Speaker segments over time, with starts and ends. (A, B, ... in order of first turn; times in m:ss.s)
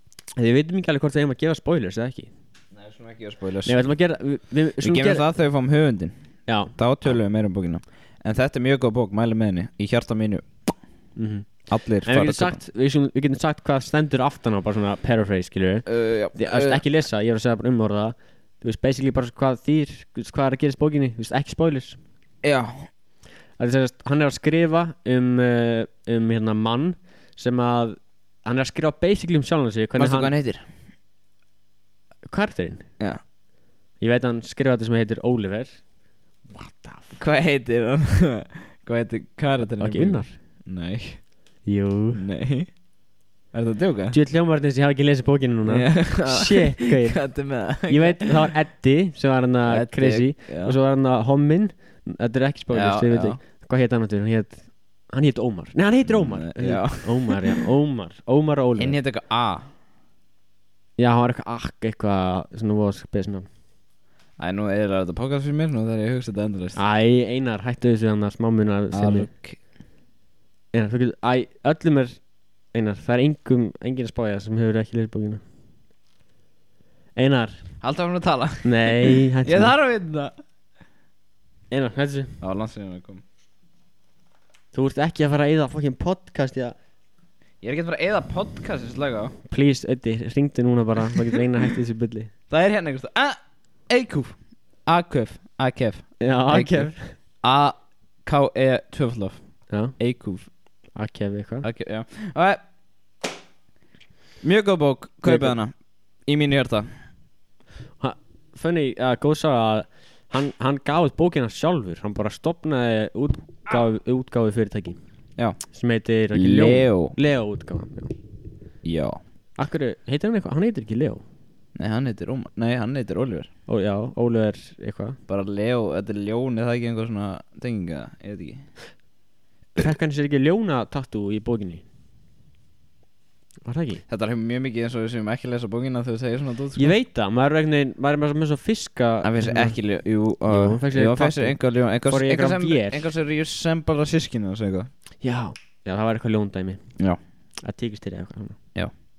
0:00.4-0:02.3 A
0:02.7-0:03.8 B
0:03.7-0:05.2 A
0:04.8-0:06.2 B
0:06.5-0:06.7 A
0:06.8-0:10.8 B
0:11.2-0:11.5 A
0:11.7-0:12.6 B
0:12.0-0:22.0 A
0:15.9-0:16.8 B
0:22.4-0:22.9 B
0:23.6-0:30.3 A
0:30.0-0:30.6 B
0:32.3-0:32.9 A
0:34.0-0:35.8 A
0:36.5-0:37.2 A
0:37.2-0:41.3 B
0:39.8-0:40.4 A
0:41.6-0:42.2 A
0:42.1-0:42.7 B
0:43.5-0:44.2 B
0:44.1-0:47.2 A
0:45.7-0:48.4 B
0:47.9-0:59.0 A
0:49.7-0:50.8 B
0:52.7-0:53.4 B
0:56.1-0:57.6 B
0:58.8-0:59.7 B
1:01.0-1:03.5 A
1:04.4-1:06.8 B
1:06.8-1:09.3 A
1:08.9-1:09.6 B
1:10.7-1:12.2 A
1:12.7-1:15.4 A
1:17.2-1:17.6 A
1:17.8-1:20.4 B
1:18.6-1:19.7 A
1:21.7-1:22.3 A
1:22.4-1:23.2 B
1:24.7-1:26.8 A
1:27.6-1:29.4 B
1:29.5-1:32.3 A
1:32.5-1:36.9 B
1:36.2-1:37.2 A
1:37.4-1:40.5 B
1:39.7-1:40.0 A
1:41.0-1:41.7 A
1:41.6-1:42.6 B
1:44.4-1:45.7 B
1:45.2-1:45.5 A
1:46.2-1:46.9 B
1:48.0-1:55.0 A
1:55.7-1:58.1 A
1:56.3-1:57.2 B
1:58.8-1:59.2 B
1:59.6-2:01.2 A
2:01.8-2:03.5 B
2:03.7-2:05.2 A
2:05.3-2:08.6 B
2:09.8-2:11.8 A
2:13.6-2:14.0 A
2:14.1-2:16.9 B
2:16.8-2:19.8 A
2:19.2-2:24.9 B
2:20.5-2:23.1 A
2:25.2-2:26.8 A
2:27.6-2:28.6 A